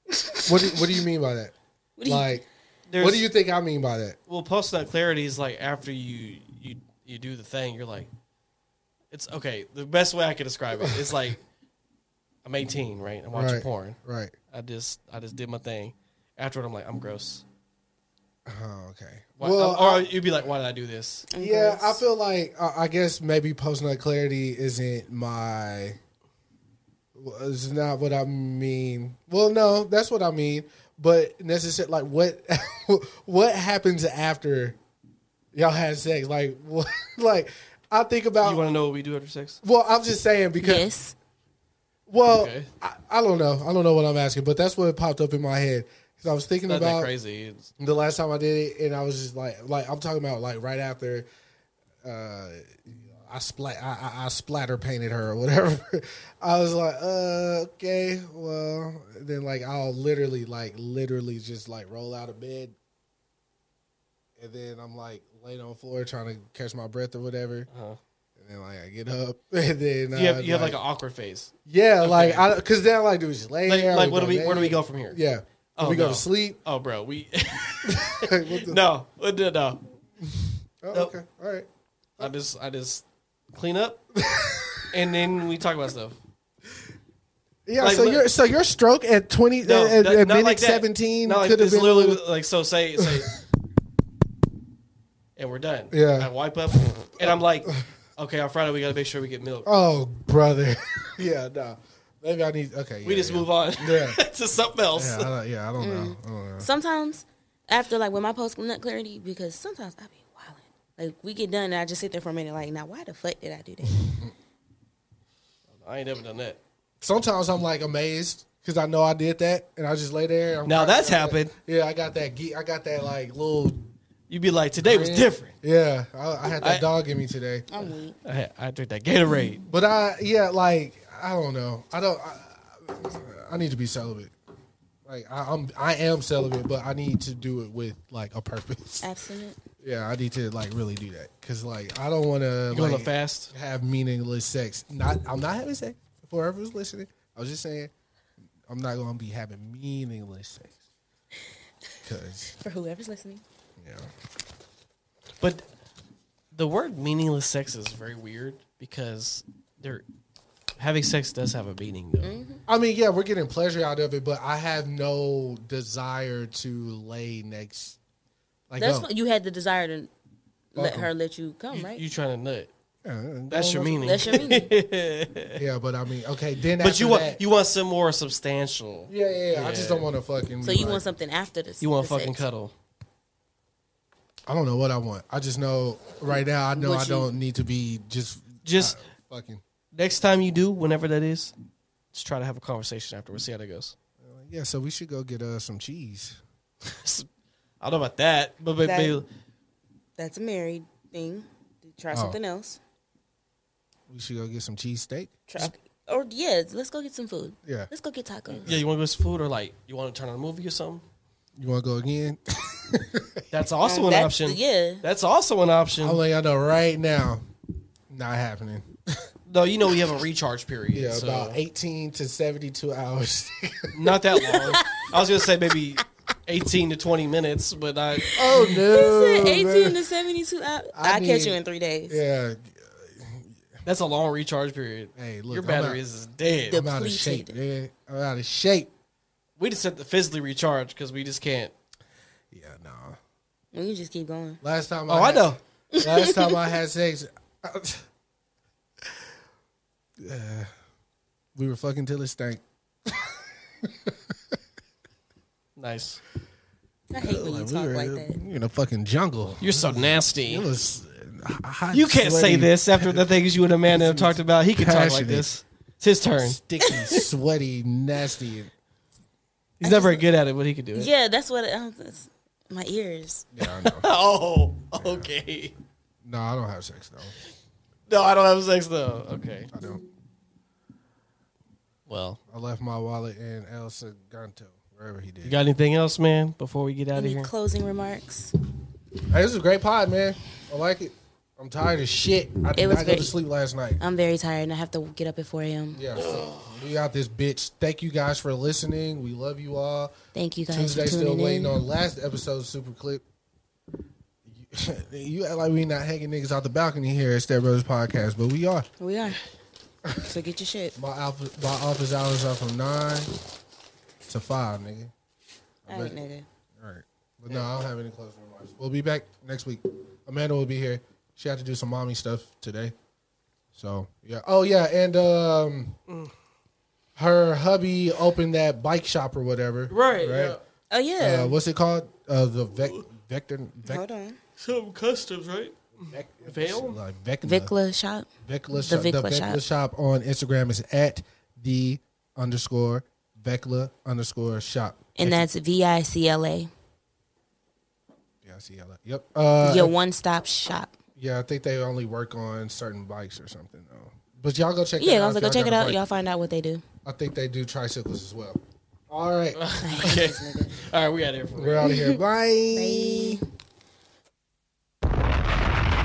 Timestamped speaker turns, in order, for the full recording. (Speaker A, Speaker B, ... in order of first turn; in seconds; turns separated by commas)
Speaker A: 0.1-0.8, Speaker B: 0.5-1.5, Speaker A: 2.0-2.4, Speaker B: 2.0-2.4, Speaker C: 2.9-3.3, Speaker B: 3.0-4.2, Speaker C: 4.3-8.1, Speaker C: 9.1-11.4, Speaker B: 10.8-11.2, Speaker C: 12.4-14.0, Speaker B: 13.3-14.3, Speaker C: 14.5-17.4, Speaker B: 18.5-20.1, Speaker C: 19.4-21.3, Speaker A: 21.3-22.0, Speaker B: 21.3-26.0, Speaker B: 27.1-34.8, Speaker B: 35.5-38.6, Speaker C: 38.4-39.6, Speaker B: 39.6-40.9, Speaker A: 40.6-41.1, Speaker B: 42.1-47.1, Speaker C: 42.3-42.7, Speaker C: 46.7-47.7, Speaker B: 47.8-51.3, Speaker B: 52.0-62.8, Speaker B: 64.4-67.7, Speaker C: 67.7-68.0, Speaker B: 68.4-70.8, Speaker C: 70.1-72.5, Speaker B: 71.7-76.6, Speaker C: 73.7-75.2, Speaker C: 75.8-80.0, Speaker B: 77.8-78.8, Speaker B: 80.2-82.3, Speaker C: 82.2-84.0, Speaker B: 84.2-84.9, Speaker C: 84.9-86.2, Speaker B: 87.7-92.2, Speaker C: 87.8-88.2, Speaker C: 89.6-93.3, Speaker B: 93.0-93.3, Speaker C: 95.4-99.7, Speaker B: 95.9-96.3, Speaker B: 97.2-97.7, Speaker B: 99.7-104.2, Speaker C: 103.0-105.3, Speaker B: 104.9-106.7, Speaker A: 105.8-114.2, Speaker B: 114.0-114.3, Speaker C: 115.7-116.6, Speaker B: 117.0-123.9, Speaker C: 120.7-121.5, Speaker C: 124.3-125.5, Speaker B: 124.8-127.7, Speaker C: 126.6-126.9, Speaker A: 127.7-128.2, Speaker C: 128.2-129.7, Speaker B: 129.7-134.3, Speaker B: 135.1-139.1, Speaker A: 139.0-139.6, Speaker B: 139.8-147.9, Speaker C: 142.7-143.5, Speaker B: 148.7-150.8, Speaker B: 152.0-152.5, Speaker A: 152.6-153.4, Speaker B: 153.8-154.1, Speaker C: 156.5-160.0, Speaker C: 160.8-162.4, Speaker A: 162.2-162.6, Speaker B: 162.7-168.0, Speaker B: 168.7-169.1, Speaker A: 168.8-170.1, Speaker B: 170.8-171.1, Speaker A: 170.8-172.0, Speaker C: 171.7-172.7, Speaker B: 173.0-174.3, Speaker C: 173.5-175.6, Speaker A: 174.1-174.7, Speaker B: 175.6-177.4, Speaker C: 176.8-180.1, Speaker B: 179.1-181.1, Speaker A: 180.6-182.4, Speaker C: 181.8-182.7, Speaker B: 184.5-189.6, Speaker A: 186.8-187.3, Speaker C: 188.7-189.0, Speaker C: 189.9-191.5, Speaker C: 192.1-193.9, Speaker B: 194.2-196.4, Speaker C: 196.9-197.3, Speaker C: 197.8-199.3, Speaker A: 198.8-199.2, Speaker A: 200.2-202.8, Speaker B: 202.1-202.4, Speaker B: 204.1-205.7, Speaker A: 205.5-208.7, Speaker B: 207.6-207.9, Speaker C: 208.7-211.0, Speaker B: 211.6-213.4, Speaker C: 213.5-216.2, Speaker A: 213.8-215.0, Speaker B: 216.0-217.4, Speaker B: 218.1-219.2, Speaker C: 219.5-221.6, Speaker B: 220.9-223.9, Speaker C: 223.9-228.5, Speaker A: 224.4-225.1, Speaker B: 228.3-230.0, Speaker A: 228.5-232.2, Speaker B: 230.9-233.6, Speaker C: 233.8-236.8, Speaker B: 235.2-236.0, Speaker B: 236.7-238.9, Speaker A: 236.7-237.6, Speaker C: 239.6-241.7, Speaker B: 242.5-243.2, Speaker A: 243.7-244.6, Speaker B: 244.6-248.1, Speaker C: 245.1-245.6, Speaker A: 246.0-246.7, Speaker B: 250.2-250.7, Speaker B: 251.6-254.2, Speaker C: 255.8-256.2, Speaker A: 257.1-258.4, Speaker B: 257.1-263.3, Speaker C: 259.6-260.7, Speaker C: 261.9-266.9, Speaker B: 263.9-265.5, Speaker B: 266.4-268.7, Speaker C: 269.8-271.1, Speaker A: 269.8-270.2, Speaker A: 270.9-273.5, Speaker B: 273.5-274.1, Speaker C: 273.8-275.8, Speaker B: 275.0-275.3, Speaker B: 276.2-277.3, Speaker C: 278.1-279.7, Speaker B: 279.7-280.0, Speaker C: 282.1-282.4, Speaker B: 282.5-285.6, Speaker C: 285.4-287.5, Speaker A: 287.1-288.5, Speaker B: 289.3-294.0, Speaker A: 292.8-293.4, Speaker A: 294.0-296.0, Speaker B: 295.9-300.1, Speaker A: 300.3-301.8, Speaker B: 300.7-303.2, Speaker B: 304.4-308.9, Speaker A: 309.0-309.4, Speaker A: 310.2-310.9, Speaker B: 310.9-313.3, Speaker B: 314.3-315.1, Speaker B: 315.9-316.2, Speaker A: 315.9-316.5, Speaker B: 316.8-322.9, Speaker B: 323.8-326.0, Speaker B: 327.2-330.6, Speaker C: 329.9-330.6, Speaker A: 330.9-331.6, Speaker B: 331.2-334.0, Speaker A: 333.9-334.4, Speaker C: 334.6-337.0, Speaker B: 336.0-337.8, Speaker A: 337.4-339.6, Speaker B: 338.4-345.5, Speaker A: 345.2-346.7, Speaker B: 348.4-349.9, Speaker A: 349.6-351.0, Speaker B: 351.2-356.0, Speaker A: 355.0-356.8, Speaker B: 357.1-360.2, Speaker C: 359.6-361.9, Speaker A: 359.8-360.8, Speaker B: 361.6-363.4, Speaker A: 361.8-362.2, Speaker A: 362.7-363.4